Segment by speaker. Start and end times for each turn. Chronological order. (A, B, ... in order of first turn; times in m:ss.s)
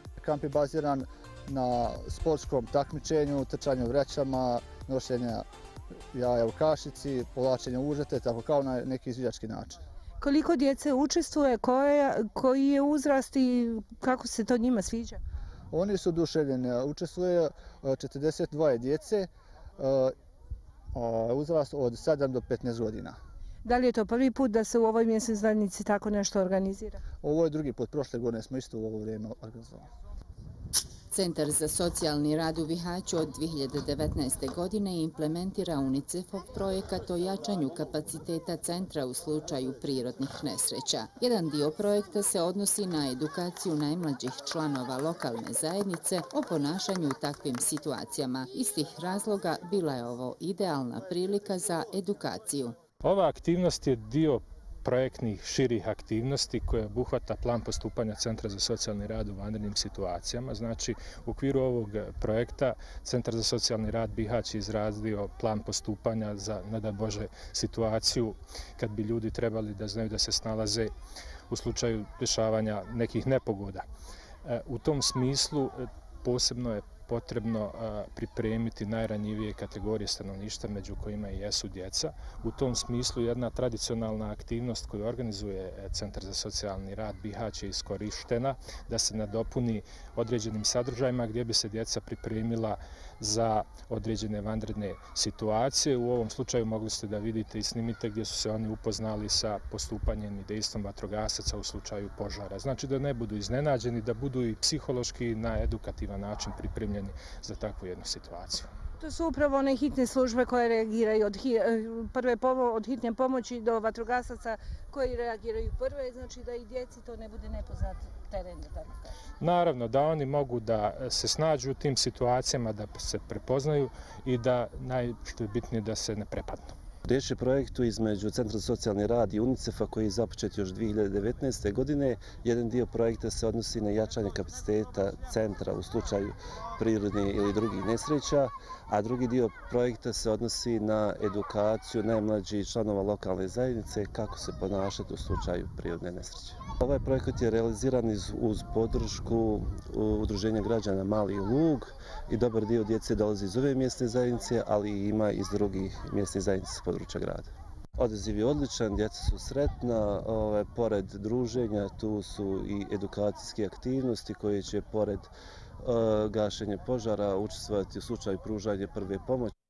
0:00.2-0:05.4 A
0:06.1-0:09.8 A
0:10.2-0:15.2 B
0:15.7-0:20.1 A
0:20.9-0:23.2 A
0:23.6-0:27.0 B
0:27.2-0:29.9 A
0:31.1-0:52.8 C
0:53.0-1:10.9 D
1:11.5-1:13.8 D
1:14.4-1:48.7 D
1:49.0-1:59.1 B
1:59.4-2:06.7 D
2:07.0-2:49.5 E